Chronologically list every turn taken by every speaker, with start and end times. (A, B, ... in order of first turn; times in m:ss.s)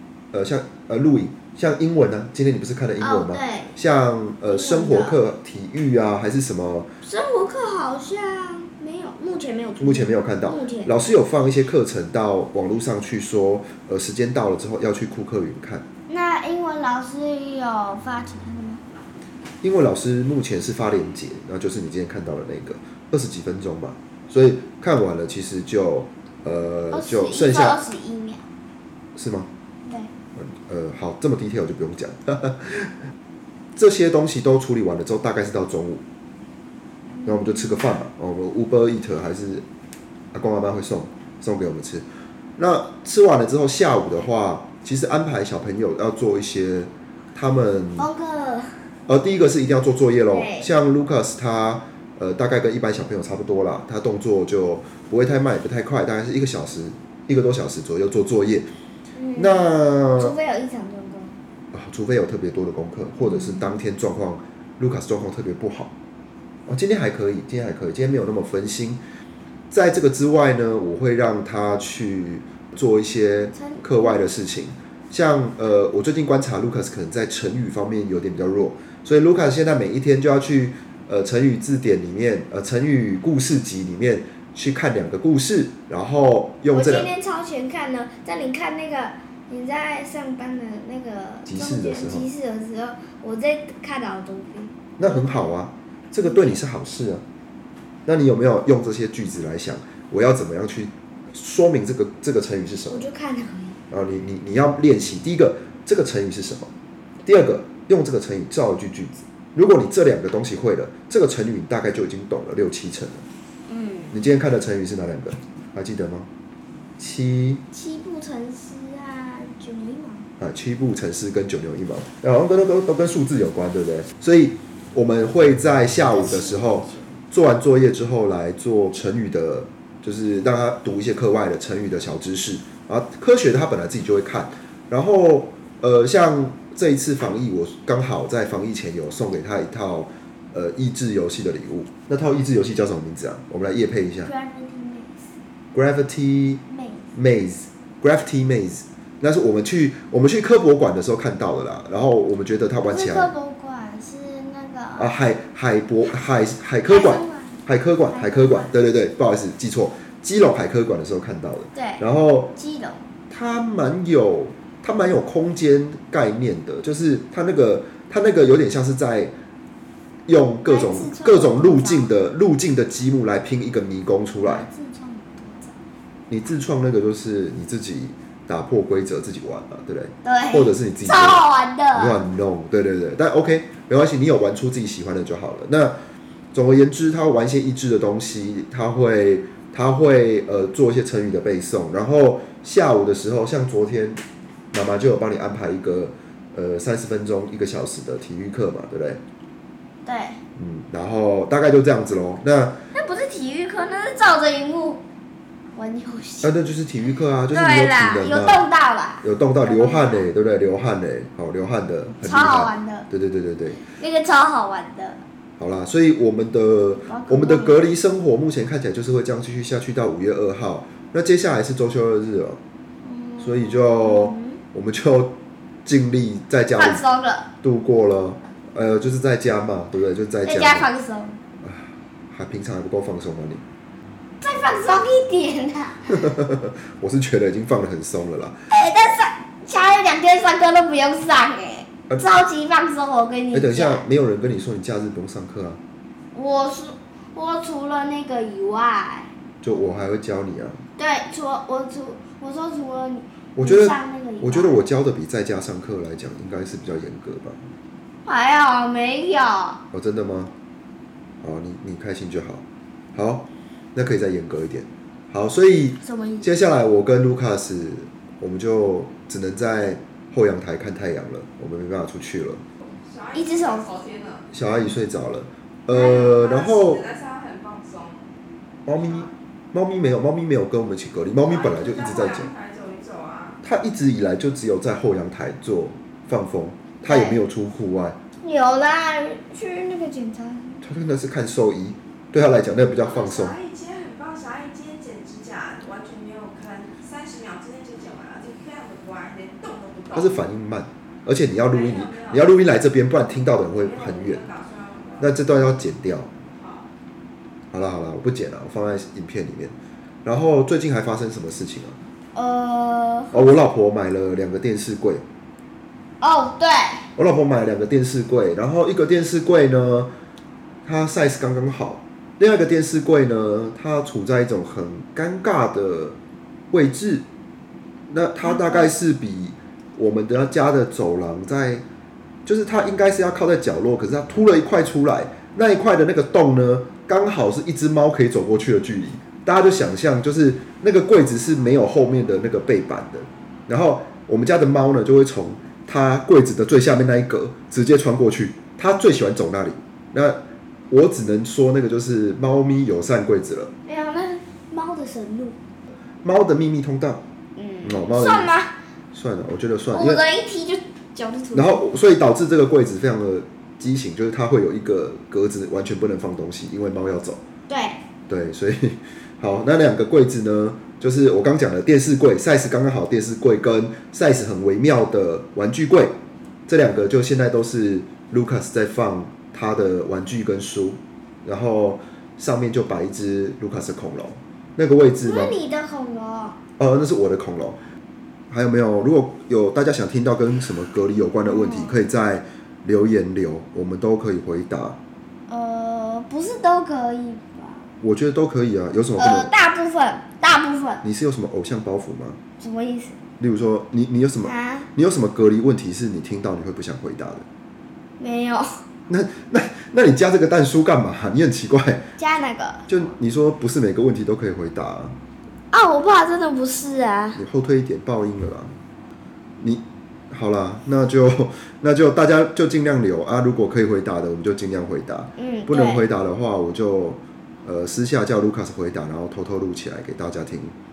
0:00.3-0:06.9 A
0:03.0-0:03.8 B
0:04.5-0:05.2 B
0:07.0-0:10.9 B
0:09.8-0:15.8 A
0:16.1-0:18.8 B
0:19.6-0:27.8 A
0:26.9-0:28.5 B
0:29.2-0:29.5 A
0:29.8-0:30.1 B
0:30.4-0:33.0 A
0:33.8-0:36.0 A
0:37.1-0:38.0 B
0:37.2-0:39.6 A
0:40.3-0:42.0 A
0:42.6-0:48.1 A
0:48.0-0:48.9 B
0:49.1-0:58.7 A
0:50.3-0:50.7 B
0:59.1-1:01.4 B
0:59.4-1:00.3 A
1:01.7-1:05.9 A
1:03.2-1:03.7 B
1:06.7-1:09.0 A
1:09.7-1:27.1 A
1:13.5-1:14.2 B
1:26.7-1:35.5 B
1:31.5-1:32.3 A
1:35.0-1:37.2 A
1:36.2-1:36.6 B
1:38.0-1:43.1 A
1:42.9-1:43.8 B
1:43.9-1:46.7 A
1:47.2-1:53.2 A
1:53.7-1:54.2 B
1:54.1-1:56.3 A
1:57.0-1:57.6 A
1:57.7-2:00.3 B
2:00.4-2:24.3 A
2:06.0-2:07.1 B
2:24.2-2:25.3 B
2:25.7-2:26.6 A
2:26.7-2:27.1 B
2:27.1-2:33.3 A
2:32.8-2:35.1 B
2:35.0-2:42.5 A
2:36.8-2:38.7 B
2:41.7-2:42.0 B
2:42.5-2:43.1 B
2:43.3-2:49.3 A
2:50.3-2:54.7 A
2:50.6-2:52.1 B
2:54.4-2:55.8 B
2:56.3-3:06.0 A
3:00.2-3:02.2 B
3:06.5-3:14.2 A
3:14.7-3:19.2 A
3:20.0-3:20.4 B
3:20.6-3:22.8 A
3:22.9-3:25.0 B
3:25.8-3:26.5 B
3:26.4-3:28.6 A
3:27.5-3:30.3 B
3:29.2-3:33.8 A
3:32.2-3:33.1 B
3:33.8-3:35.2 B
3:35.6-3:42.6 A
3:37.1-3:37.8 B
3:43.0-3:44.6 B
3:43.4-3:47.0 A
3:46.8-3:47.5 B
3:47.6-3:50.9 A
3:50.4-3:51.4 B
3:51.6-3:53.6 A
3:54.4-3:56.2 B
3:56.1-3:58.6 A
3:58.7-4:04.0 B
4:03.5-4:05.8 A
4:06.3-4:09.3 B
4:09.6-4:10.8 A
4:11.0-4:14.8 B
4:13.6-4:17.7 A
4:18.2-4:19.8 B
4:19.9-4:20.5 A
4:21.4-4:22.6 A
4:23.1-4:32.6 A
4:26.0-4:26.5 B
4:33.0-4:34.4 C
4:33.3-4:34.0 B
4:34.5-4:37.1 A
4:35.9-4:38.2 C
4:38.8-4:42.5 A
4:41.4-4:43.6 C
4:43.6-4:48.2 A
4:47.0-4:47.4 B
4:48.4-4:50.9 B
4:50.8-4:53.6 A
4:53.0-5:00.3 C
5:00.1-5:04.4 A
5:01.7-5:02.5 C
5:03.6-5:05.3 C
5:05.2-5:06.3 A
5:06.6-5:06.8 C
5:07.7-5:12.0 A
5:12.3-5:13.5 B
5:13.3-5:15.2 A
5:16.2-5:17.1 B
5:17.2-5:20.1 A
5:20.8-5:26.2 A
5:26.7-5:27.2 A
5:28.1-5:31.8 A
5:28.4-5:28.9 B
5:32.4-5:53.7 A
5:53.8-5:55.6 B
5:56.2-5:57.2 A
5:57.6-5:58.7 B
5:57.8-5:58.5 A
5:59.1-6:00.2 A
5:59.9-6:01.8 B
6:01.5-6:07.4 A
6:07.7-6:08.0 B
6:08.3-6:16.1 A
6:16.7-6:25.6 A
6:25.2-6:26.6 B
6:26.8-6:27.8 A
6:28.5-6:35.0 A
6:31.4-6:32.0 B
6:35.5-6:37.9 B
6:38.0-6:39.5 A
6:39.2-6:41.0 B
6:41.0-6:42.4 A
6:42.6-6:43.2 B
6:43.4-6:47.4 A
6:44.4-6:44.9 B
6:48.2-6:48.7 B
6:49.1-6:52.1 A
6:52.2-6:53.0 B
6:52.9-6:55.2 A
6:55.7-6:57.4 B
6:57.3-6:58.8 A
6:59.6-7:10.7 A
7:05.4-7:06.0 B